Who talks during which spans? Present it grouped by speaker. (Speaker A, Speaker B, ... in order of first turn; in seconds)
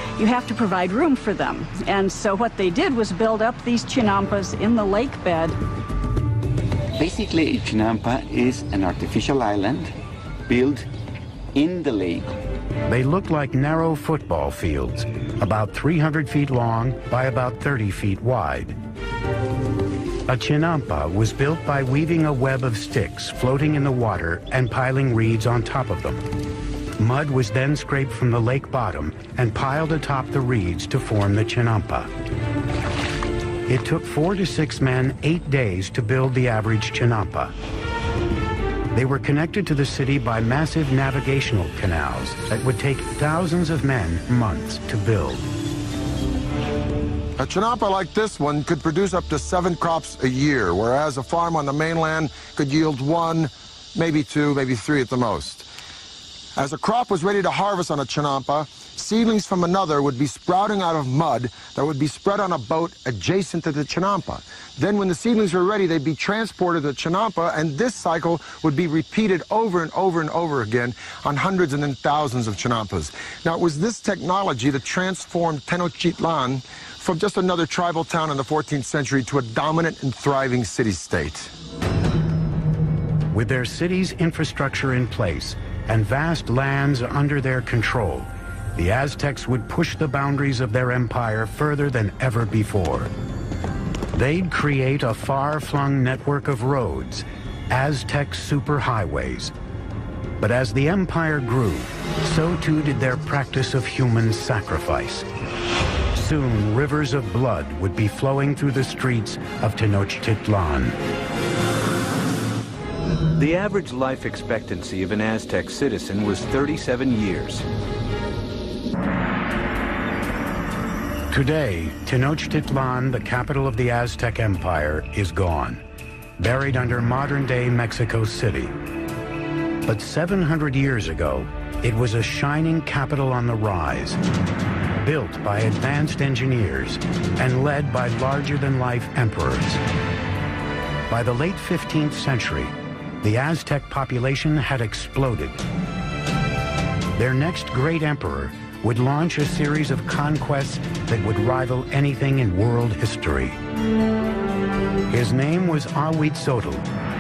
Speaker A: 0.2-5.6
Speaker B: 7.0-9.9, 10.5-10.9, 11.6-12.3
Speaker C: 12.9-18.8, 20.3-26.2, 27.0-32.1, 33.7-37.5, 38.9-45.5, 83.3-93.1, 94.1-99.5, 100.4-105.3, 106.1-111.0, 121.3-125.8, 126.4-128.8, 129.9-134.2, 135.0-139.8, 141.1-145.6, 147.2-153.6, 155.1-156.9
Speaker D: 47.4-55.6, 56.6-81.5
Speaker E: 113.4-117.7